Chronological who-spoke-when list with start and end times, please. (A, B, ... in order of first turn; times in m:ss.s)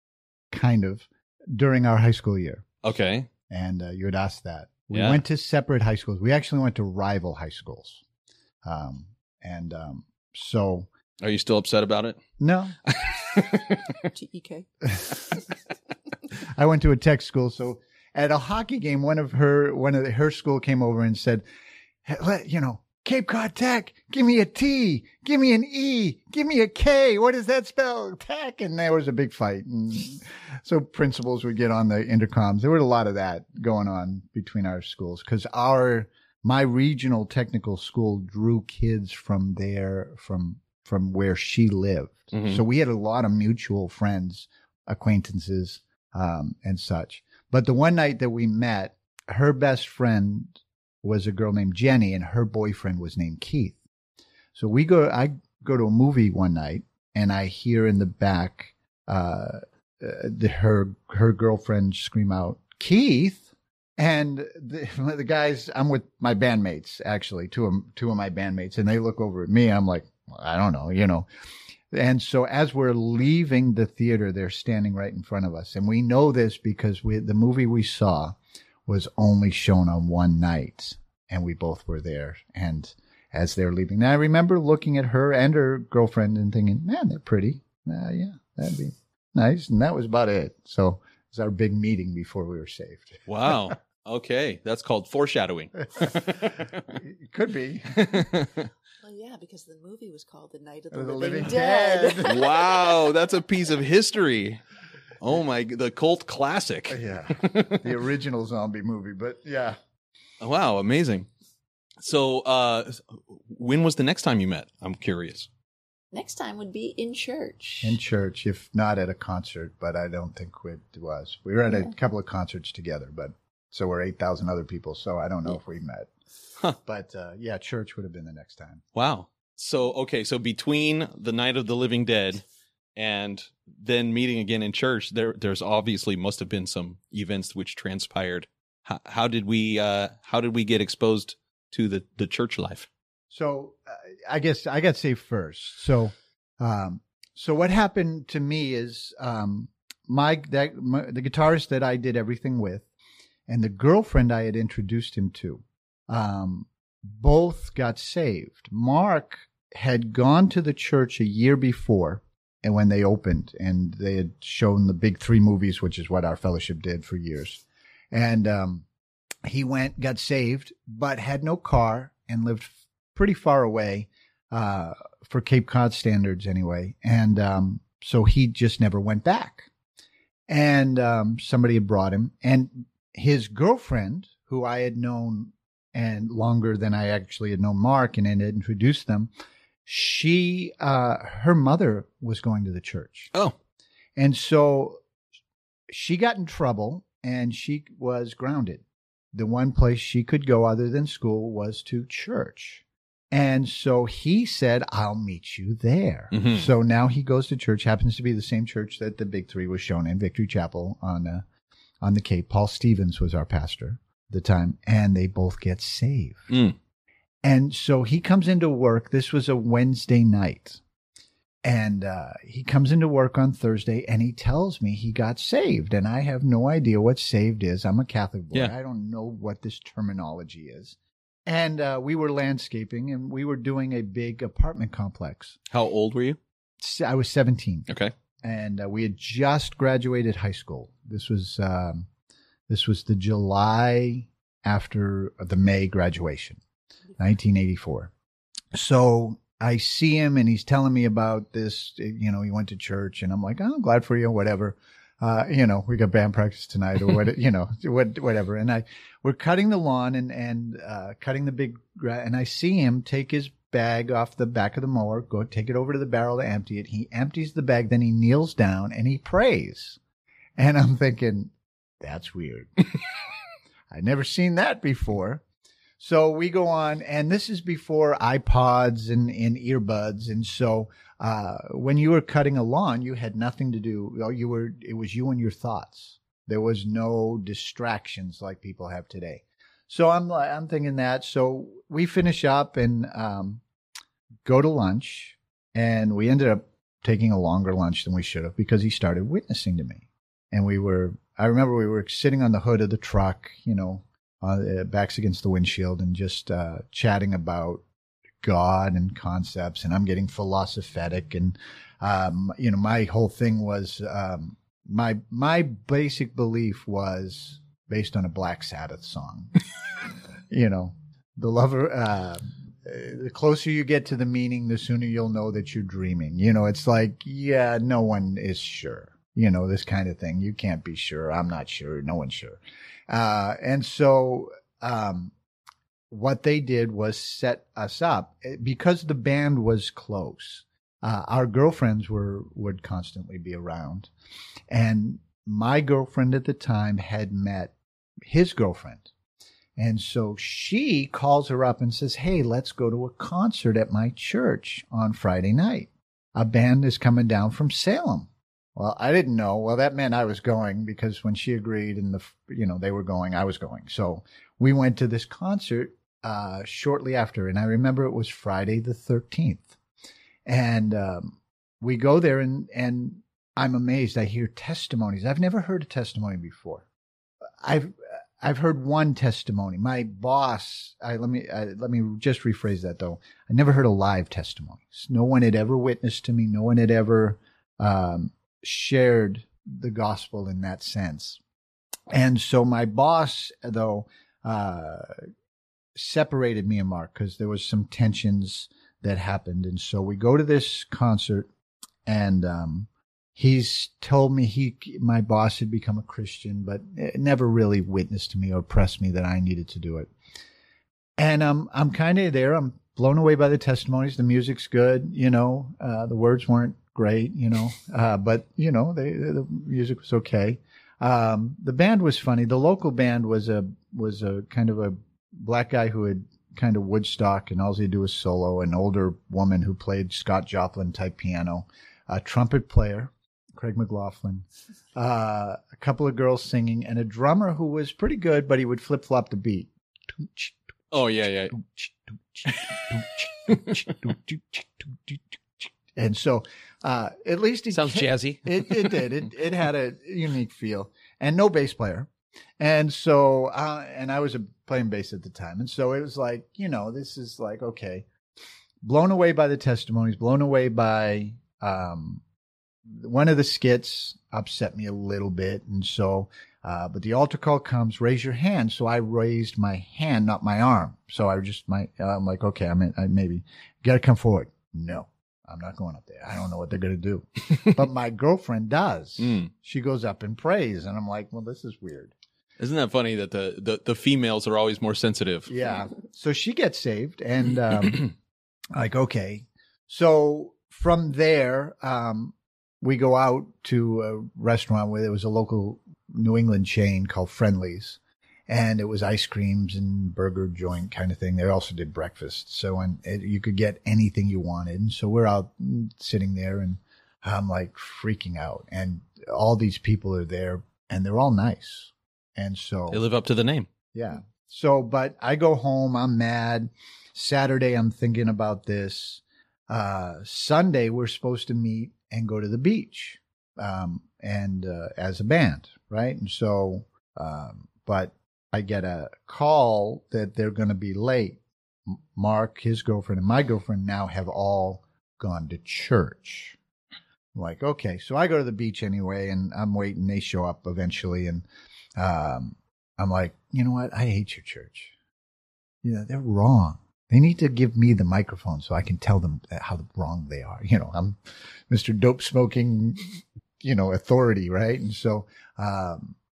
0:00.5-0:02.7 A
0:02.8-0:03.3 B
0:03.5-0:08.0 A
0:04.9-0:05.2 B
0:08.6-0:10.9 A
0:11.2-0:12.2 B
0:12.4-0:12.8 A
0:12.8-0:14.1 B
0:14.1-0:14.7 C
0:16.5-0:21.4 A
0:22.0-0:53.8 A
0:42.3-0:42.6 B
0:54.6-1:11.3 A
1:11.9-1:33.7 A
1:33.3-1:37.0 B
1:36.1-1:38.3 A
1:37.9-1:38.7 B
1:39.0-1:43.2 C
1:40.9-1:42.4 A
1:42.2-1:44.6 B
1:45.2-1:47.9 B
1:46.9-1:49.8 A
1:50.4-1:51.3 B
1:52.0-1:55.5 B
1:56.1-1:58.0 C
1:57.8-2:06.1 A
2:06.8-2:08.8 A
2:09.0-2:12.4 B
2:13.0-2:22.9 B
2:23.3-2:32.9 A
2:33.5-2:48.8 A
2:49.4-2:59.7 A
3:00.5-3:09.3 A
3:09.8-3:13.3 A
3:14.2-3:15.0 A
3:15.9-3:31.4 A
3:26.3-3:26.7 B
3:32.0-3:36.5 A
3:36.5-3:36.8 B
3:37.4-3:40.8 A
3:41.6-3:55.6 A
3:55.7-3:56.4 B
3:56.8-3:57.9 A
3:57.9-3:58.1 B
3:58.4-4:02.1 A
4:02.7-4:06.6 A
4:07.2-4:08.1 A
4:08.7-4:30.0 A
4:30.6-4:32.9 A
4:33.9-4:35.4 A
4:36.0-4:53.6 A
4:54.4-5:07.8 A
5:08.4-5:19.5 A
5:20.5-5:35.3 A
5:36.1-5:44.1 A
5:44.7-5:47.8 A
5:48.3-5:49.1 A
5:49.8-6:09.8 A
6:10.5-6:16.8 A
6:17.6-6:31.4 A
6:32.1-6:35.3 A
6:36.0-6:41.5 A
6:42.1-6:50.1 A
6:51.2-7:20.6 A
7:20.9-7:21.6 B
7:21.5-7:38.0 A
7:22.5-7:22.8 B
7:23.5-7:23.9 B
7:27.7-7:29.1 B
7:38.8-7:42.2 A
7:42.9-8:02.1 A
7:59.2-7:59.5 B
8:02.6-8:05.5 B
8:05.5-8:08.1 A
8:08.8-8:33.1 A
8:32.9-8:33.7 B
8:33.9-8:56.6 A
8:57.3-9:01.4 A
9:02.0-9:04.9 A
9:05.8-9:11.2 A
9:11.7-9:16.2 A